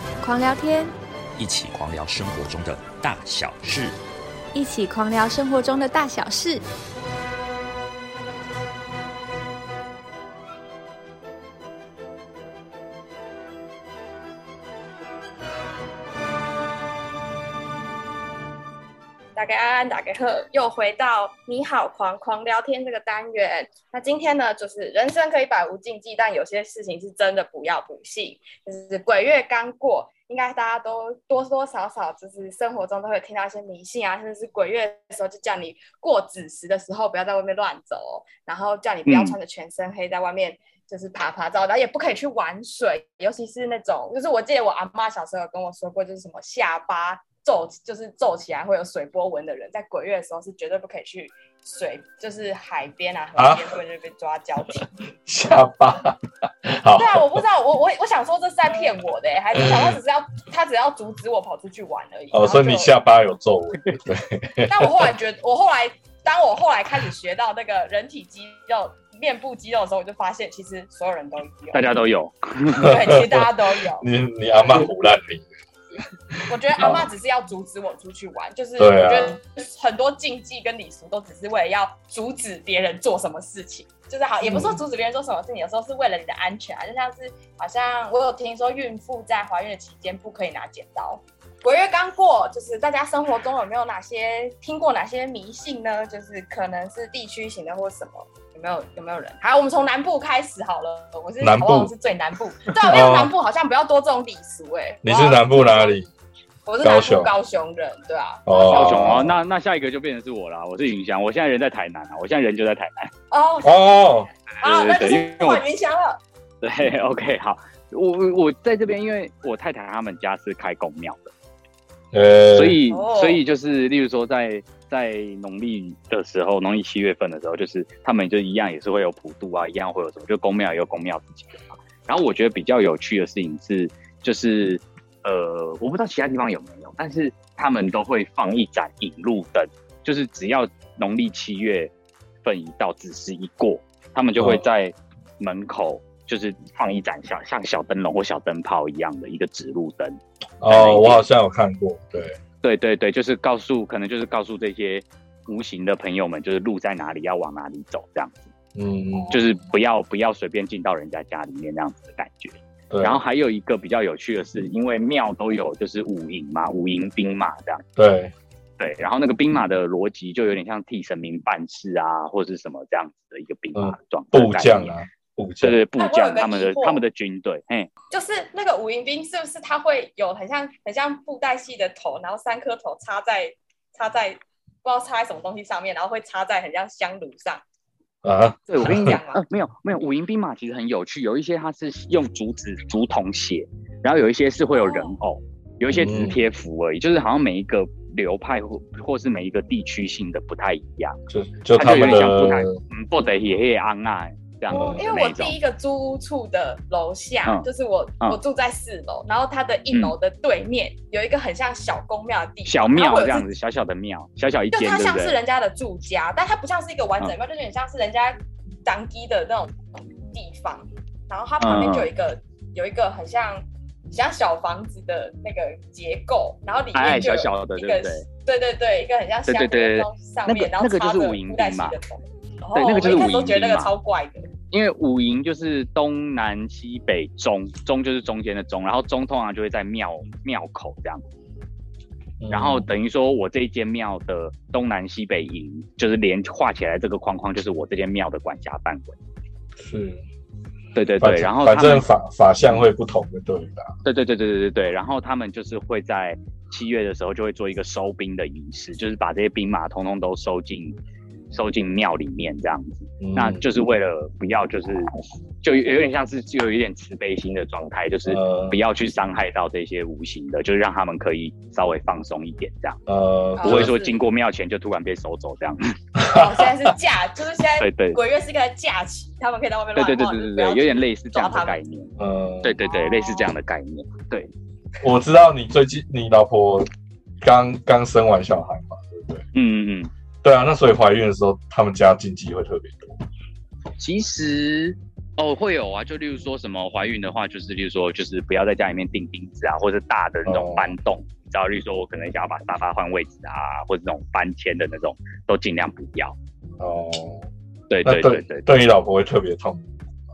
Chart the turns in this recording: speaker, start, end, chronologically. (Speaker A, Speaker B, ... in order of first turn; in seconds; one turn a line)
Speaker A: 0.2-0.9
Speaker B: 1.4-4.0
Speaker A: 4.5-6.6
Speaker C: 19.4-54.9
Speaker D: 39.0-39.4
Speaker E: 53.4-53.8
Speaker E: 54.8-57.4
Speaker C: 57.0-62.9
Speaker E: 59.5-60.0
Speaker E: 62.3-65.1
Speaker C: 64.7-71.9
Speaker D: 71.7-72.9
Speaker C: 72.8-74.1
Speaker E: 72.8-75.5
Speaker E: 76.3-77.1
Speaker C: 76.5-106.0
Speaker E: 78.8-79.4
Speaker E: 84.4-84.8
Speaker E: 101.4-101.9
Speaker E: 102.8-103.3
Speaker E: 105.0-106.1
Speaker C: 106.7-109.3
Speaker E: 106.8-107.3
Speaker E: 108.5-109.4
Speaker D: 108.7-113.1
Speaker C: 113.3-116.2
Speaker E: 113.6-114.3
Speaker D: 114.5-115.6
Speaker D: 116.6-121.3
Speaker E: 122.1-122.8
Speaker D: 122.5-141.9
Speaker C: 122.9-123.4
Speaker D: 142.4-151.2
Speaker E: 150.6-152.4
Speaker D: 152.6-158.5
Speaker E: 158.7-159.4
Speaker C: 159.1-159.4
Speaker D: 159.3-167.8
Speaker E: 162.9-163.2
Speaker E: 167.9-168.3
Speaker D: 168.8-174.9
Speaker E: 173.7-175.8
Speaker D: 175.6-177.9
Speaker C: 176.0-177.0
Speaker C: 178.1-187.6
Speaker E: 188.2-189.2
Speaker D: 188.7-201.2
Speaker C: 188.7-189.4
Speaker C: 194.7-195.2
Speaker E: 195.9-196.4
Speaker E: 201.3-202.8
Speaker D: 201.7-205.6
Speaker E: 204.7-205.0
Speaker C: 204.7-213.5
Speaker D: 212.7-215.3
Speaker C: 214.7-234.4
Speaker D: 221.6-222.1
Speaker D: 226.9-228.2
Speaker D: 229.4-232.0
Speaker D: 232.7-233.9
Speaker D: 234.7-241.2
Speaker E: 242.4-242.9
Speaker D: 242.5-249.2
Speaker E: 249.8-250.2
Speaker D: 250.9-252.0
Speaker E: 251.2-253.9
Speaker D: 252.6-252.9
Speaker D: 254.0-261.0
Speaker D: 261.5-273.0
Speaker E: 263.2-263.6
Speaker E: 268.2-268.8
Speaker E: 273.1-273.9
Speaker C: 273.6-274.2
Speaker D: 273.6-276.0
Speaker E: 276.2-276.6
Speaker C: 276.2-281.8
Speaker D: 277.8-278.2
Speaker D: 279.9-284.5
Speaker E: 282.2-282.8
Speaker C: 282.8-283.5
Speaker E: 285.0-286.9
Speaker E: 287.4-289.4
Speaker D: 289.5-290.1
Speaker E: 290.4-293.2
Speaker D: 294.0-306.4
Speaker E: 300.4-300.9
Speaker E: 306.8-307.4
Speaker D: 307.9-308.7
Speaker E: 308.0-309.9